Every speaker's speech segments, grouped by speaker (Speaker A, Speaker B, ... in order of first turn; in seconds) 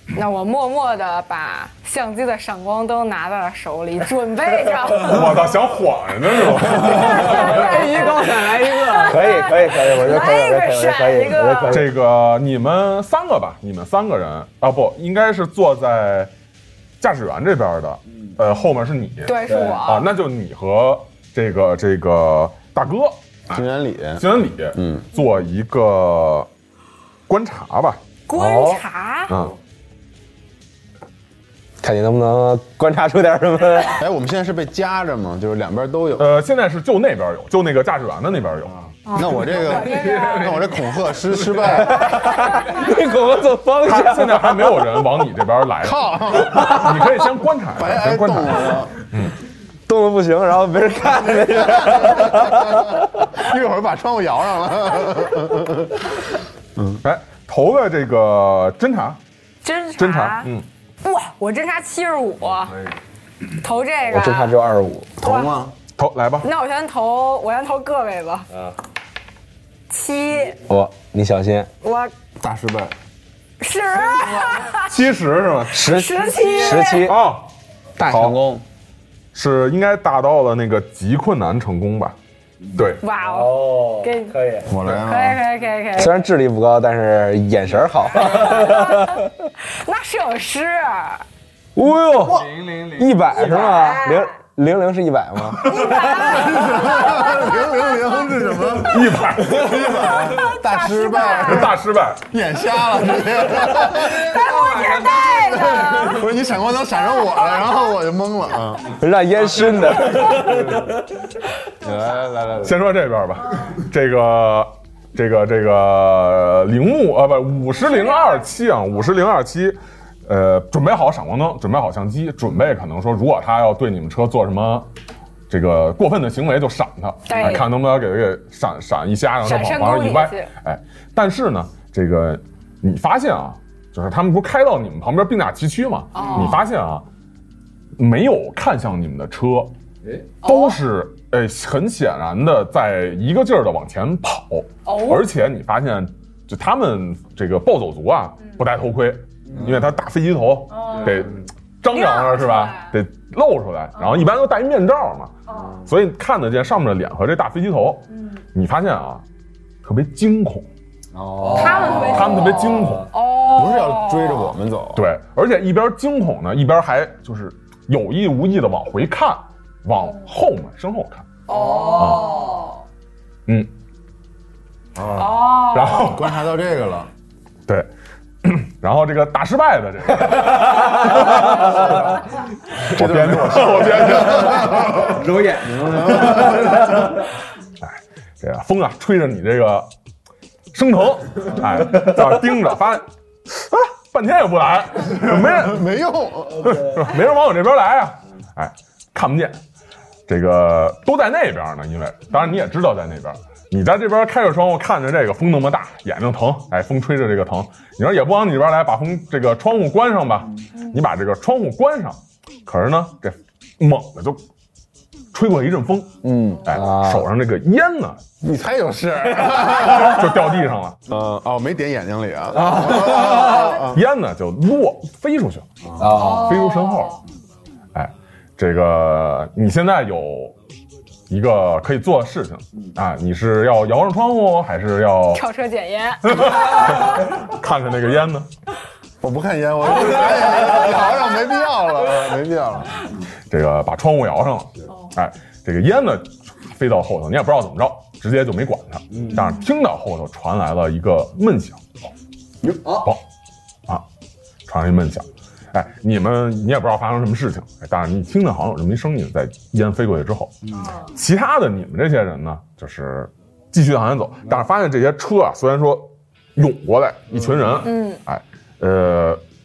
Speaker A: 0.1-5.5, 6.7-11.8, 19.2-20.1, 28.3-29.3, 39.0-40.7, 59.6-60.5, 61.0-62.8, 63.6-64.5, 65.2-65.5, 66.4-68.5, 69.9-70.6, 71.8-72.1, 73.6-74.9, 75.7-77.1, 83.0-86.2, 88.2-91.2, 93.5-94.3, 95.6-98.1, 100.2-101.7, 103.8-106.3, 127.2-127.7, 129.4-130.5, 136.1-136.6, 140.4-140.8, 144.8-145.2, 150.8-151.2, 151.9-152.9, 161.4-164.5, 171.5-172.8, 175.1-176.0, 226.1-227.1, 235.3-237.1, 267.8-268.2
Speaker B: 5.0-7.9, 11.7-16.3, 17.0-23.6, 24.1-26.5, 27.3-28.0, 29.3-29.6, 36.2-38.8, 43.8-49.3, 57.0-59.2, 60.0-60.6, 66.0-66.5, 74.8-75.8, 76.9-77.5, 78.0-78.4, 79.3-82.2, 82.7-83.0, 95.6-96.0, 98.8-99.8, 101.4-102.2, 112.6-124.9, 125.5-137.0, 138.0-139.7, 140.4-159.2, 159.8-160.7, 161.9-163.1, 164.9-171.3, 171.9-172.4, 173.5-173.7, 175.4-176.4, 178.4-182.1, 182.7-185.2, 187.8-189.9, 190.7-195.8, 196.6-199.6, 200.3-214.4, 215.3-218.2, 219.6-221.0, 223.7-227.2, 227.9-230.5, 231.3-235.4, 236.2-238.5, 243.5-252.1, 252.8-253.2, 254.7-269.4
Speaker C: 7.5-9.2, 78.0-78.6
Speaker D: 8.9-11.9, 28.3-28.8, 31.8-34.0, 41.6-44.8, 49.9-53.0, 64.1-65.1, 70.7-71.7, 75.7-77.2, 83.2-84.7, 86.0-89.3, 91.7-96.3, 108.9-111.0, 161.2-161.8, 185.7-186.5, 216.6-217.2, 222.9-223.2, 226.0-226.6
Speaker E: 23.5-24.2, 24.8-25.0, 34.0-36.3, 39.1-42.1, 45.8-46.9, 47.8-48.9, 51.7-56.0, 65.2-65.7, 72.4-72.9, 84.7-85.4, 96.0-101.8, 102.3-109.0, 111.8-112.8, 163.4-165.0, 175.9-177.1, 181.6-182.1, 182.8-187.0, 195.3-196.7, 218.4-220.4, 221.1-224.0, 239.2-243.0